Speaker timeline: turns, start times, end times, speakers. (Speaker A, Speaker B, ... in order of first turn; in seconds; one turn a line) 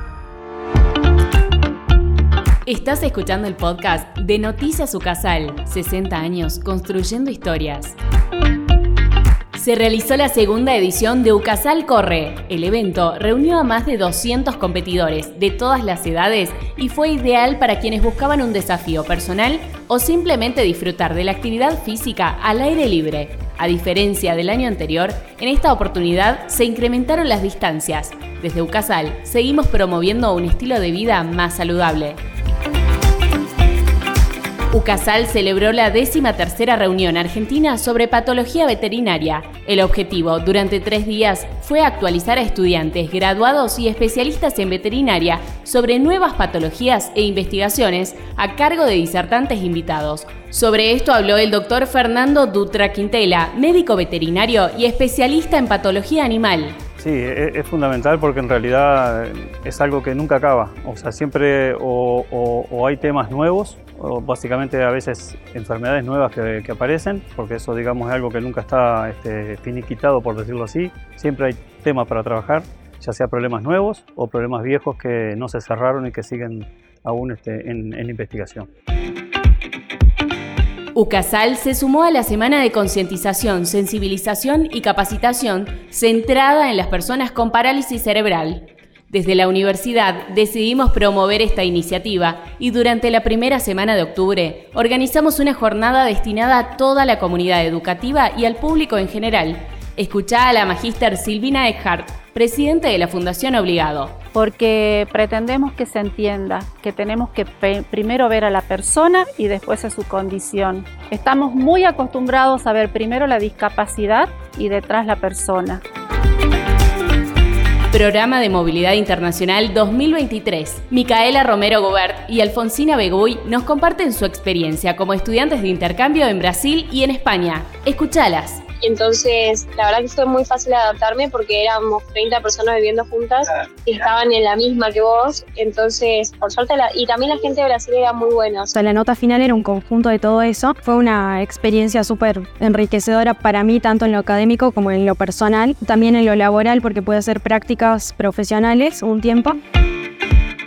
Speaker A: 2.6-8.0
Speaker A: 9.5-32.2
Speaker A: 34.7-56.8
Speaker B: 57.0-78.7
Speaker A: 80.9-104.2
Speaker C: 104.3-115.8
Speaker A: 117.9-128.6
Speaker D: 128.8-138.7
Speaker E: 138.7-149.6